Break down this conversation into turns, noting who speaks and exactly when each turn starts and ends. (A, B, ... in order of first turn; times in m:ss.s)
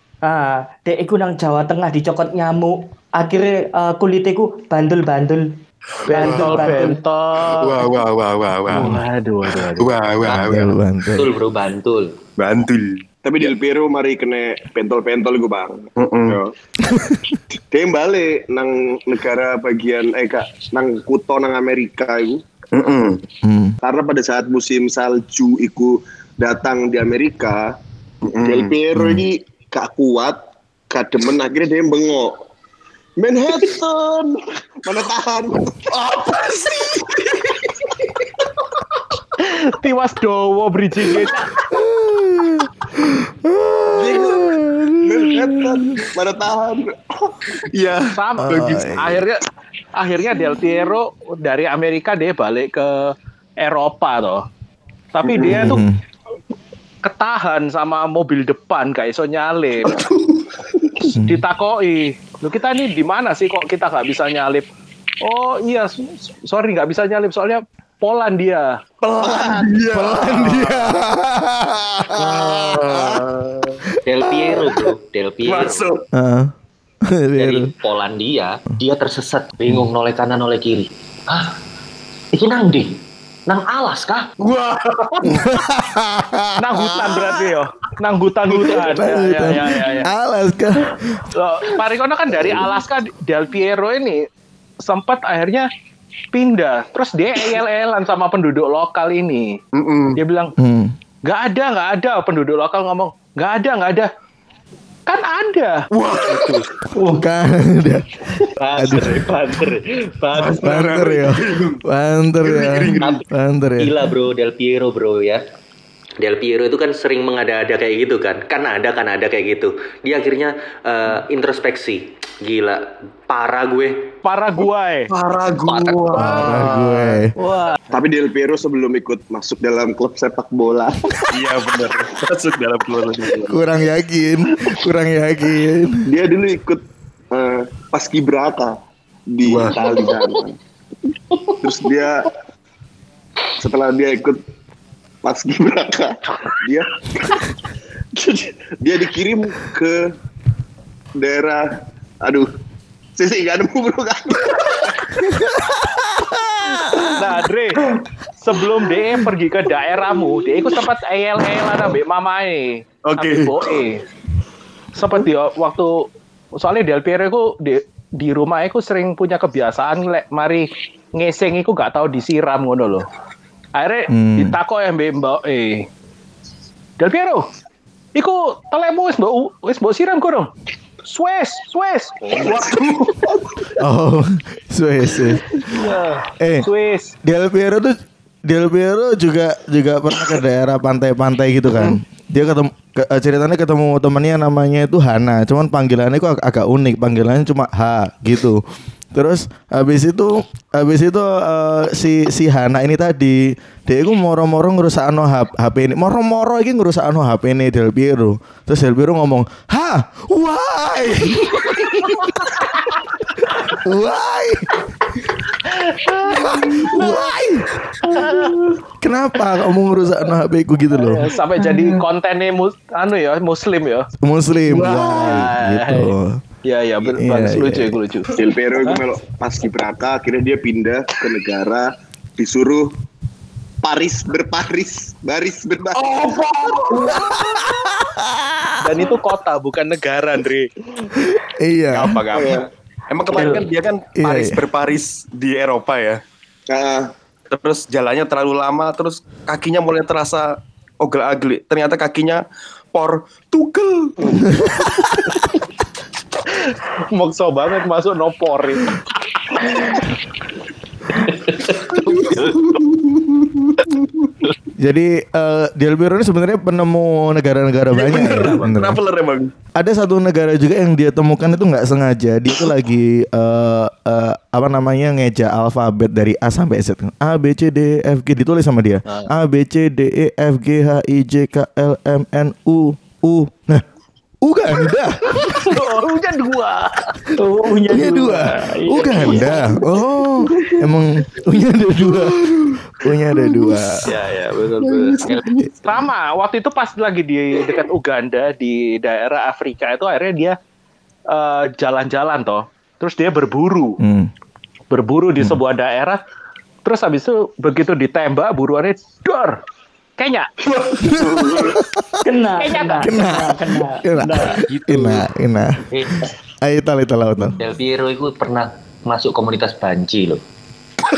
0:00.2-0:05.5 A
0:06.0-0:07.9 B
0:06.1-0:07.0 A
0:06.1-0:06.8 C
0:07.4-0:10.8 C
0:08.7-0:09.9 B
0:10.3-0:11.3 D
0:11.2-0:12.1 E
0:12.4-0:13.0 C
0:13.2-0:16.5 F
0:16.0-0:16.4 C
0:16.8-0:17.4 D
0:17.7-0:22.4 F
0:22.7-0:23.2 C
0:23.4-0:23.8 D
0:23.8-0:27.7 F
0:28.2-0:28.8 C
0:28.4-0:30.4 F
0:28.9-0:29.2 D
0:30.9-0:32.3 F
0:33.2-0:35.8 F
0:35.9-0:37.4 C
0:39.4-0:41.5 B
0:41.7-0:46.0 D
0:44.0-0:44.4 C
0:45.0-0:46.9 F
0:47.7-0:48.8 C
0:48.1-0:49.4 B
0:48.4-0:49.2 D
0:50.0-0:54.4 B
0:55.1-0:55.8 B
0:55.2-0:55.8 C
0:55.4-0:56.0 D
0:57.0-1:00.0 B
0:59.8-1:00.6 C
1:01.1-1:04.7 B
1:01.1-1:01.4 D
1:05.2-1:08.8 B
1:09.0-1:10.8 C
1:09.2-1:09.7 F
1:09.9-1:13.2 D
1:10.4-1:11.0 B
1:12.2-1:13.8 C
1:14.1-1:14.9 D
1:14.2-1:15.8 E
1:15.4-1:16.0 C
1:16.1-1:16.5 D
1:17.1-1:17.7 D
1:17.4-1:21.5 E
1:22.3-1:22.9 E
1:23.5-1:24.2 E
1:24.4-1:25.6 C
1:25.2-1:27.4 D
1:26.6-1:30.1 B
1:28.5-1:31.2 D
1:31.3-1:34.2 B
1:34.8-1:35.7 B
1:36.3-1:39.6 B
1:39.7-1:40.2 C
1:40.2-1:40.5 B
1:40.6-1:40.9 D
1:41.2-1:44.1 B
1:45.1-1:45.8 B
1:45.9-1:46.7 C
1:46.9-1:48.2 D
1:48.6-1:50.5 E
1:48.7-1:49.3 D
1:50.3-1:51.8 C
1:50.4-1:54.0 D
1:52.4-1:53.2 C
1:53.8-1:55.4 E
1:56.2-2:04.0 E
2:04.2-2:05.1 B
2:05.1-2:06.7 C
2:05.7-2:06.0 E
2:06.2-2:07.3 D
2:06.2-2:07.8 B
2:07.9-2:11.2 F
2:11.3-2:13.6 C
2:13.5-2:16.0 D
2:16.0-2:18.7 F
2:19.3-2:20.5 F
2:19.4-2:19.8 C
2:21.6-2:22.2 F
2:23.6-2:24.4 F
2:25.2-2:27.4 F
2:28.2-2:30.0 F
2:31.2-2:31.6 F
2:33.2-2:34.9 F
2:35.2-2:37.3 D
2:37.2-2:37.8 B
2:38.4-2:44.0 B
2:43.0-2:43.7 C
2:45.0-2:45.9 B
2:46.6-2:53.0 B
2:53.7-2:55.9 B
2:54.1-2:54.6 D
2:57.0-2:57.5 B
2:58.1-3:00.5 B
3:01.0-3:02.7 B
3:02.4-3:03.3 C
3:03.8-3:05.8 D
3:05.7-3:07.1 B
3:06.4-3:06.7 D
3:07.2-3:18.6 D
3:19.1-3:32.5 D
3:33.7-3:34.7 D
3:35.7-3:37.1 B
3:36.3-3:37.7 D
3:38.0-3:38.6 B
3:39.0-3:41.3 D
3:41.0-3:44.1 B
3:41.6-3:41.9 A
3:44.2-3:46.4 D
3:44.7-3:48.3 B
3:47.1-3:48.0 D
3:48.3-3:51.9 F
3:52.4-3:52.9 F
3:53.8-3:56.0 F
3:56.0-3:57.4 C
3:56.9-3:57.2 F
3:57.2-3:58.8 D
3:58.8-4:00.7 B
4:01.2-4:02.2 D
4:01.9-4:06.2 C
4:02.3-4:02.6 F
4:04.2-4:04.6 D
4:06.7-4:07.1 F
4:07.5-4:14.5 C
4:16.6-4:19.0 B
4:19.6-4:20.0 B
4:21.9-4:24.3 C
4:24.8-4:29.0 D
4:27.9-4:29.5 C
4:29.8-4:43.8 D
4:44.4-4:45.8 D
4:45.3-4:47.2 B
4:47.4-4:49.8 A
4:47.9-4:52.4 D
4:52.1-4:52.8 C
4:53.0-4:54.0 D
4:53.3-4:53.9 C
4:54.1-4:55.2 B
4:54.8-4:55.7 C
4:55.8-5:00.6 B
5:01.3-5:04.0 B
5:04.0-5:04.3 D
5:04.9-5:06.2 B
5:06.8-5:09.6 B
5:10.2-5:10.5 B
5:10.6-5:11.8 C
5:11.0-5:12.2 D
5:12.2-5:14.6 A
5:12.6-5:13.3 B
5:13.0-5:17.6 D
5:17.6-5:20.4 E